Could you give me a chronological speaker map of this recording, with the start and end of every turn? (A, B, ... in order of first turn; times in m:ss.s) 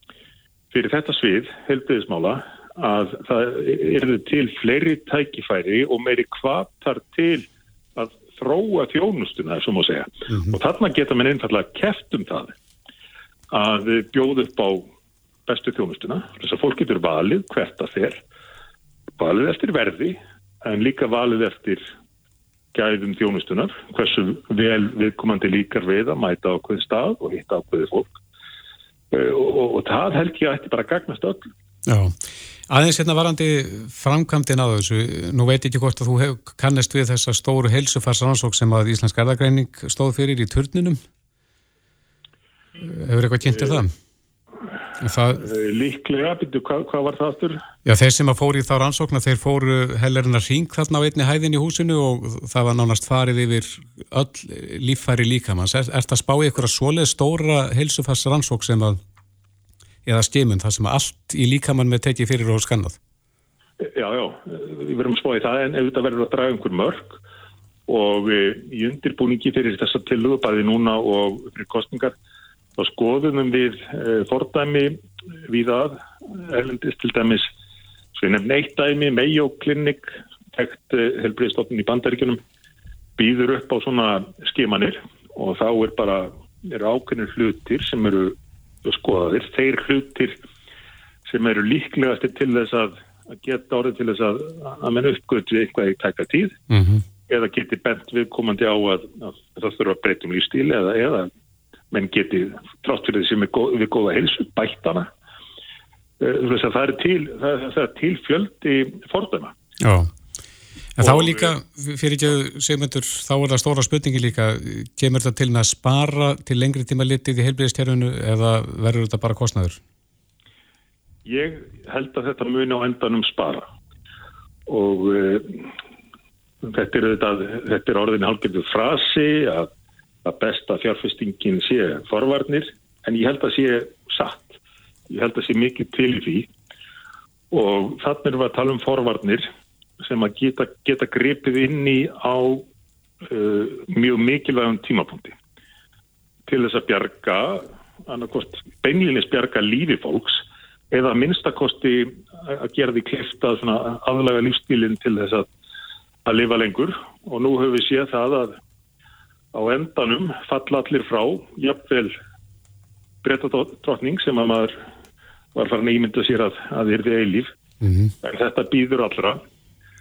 0:00.7-0:12.5 A
0:13.5-0:14.9 A
0:15.5-0:18.2 A
0:19.2-0:21.8 A
0:22.7-0:28.1 A
0:29.1-0:31.5 A
0:31.8-0:41.0 B
0:42.8-0:43.9 B
0:45.0-0:45.5 B
0:45.4-0:47.6 A
0:47.8-0:59.0 B
1:00.0-1:03.0 B
1:03.8-1:07.2 A
1:07.9-1:12.1 A
1:12.8-1:17.5 A
1:18.1-1:22.4 A
1:23.2-1:30.4 A
1:31.2-1:36.6 A
1:36.7-1:37.0 B
1:37.3-1:41.3 A
1:41.9-1:45.1 A
1:46.2-1:49.5 A
1:49.8-1:50.1 B
1:51.0-1:59.8 B
1:51.0-1:51.5 A
2:01.2-2:03.7 A
2:04.7-2:05.7 A
2:06.6-2:09.7 A
2:10.2-2:14.6 A
2:15.1-2:16.5 A
2:17.5-2:19.4 A
2:20.0-2:22.6 A
2:23.2-2:25.4 A
2:26.5-2:35.5 A
2:36.2-2:38.6 A
2:39.5-2:42.2 A
2:43.2-2:44.7 A
2:45.5-2:47.5 A
2:47.8-2:48.1 B
2:48.2-2:49.4 A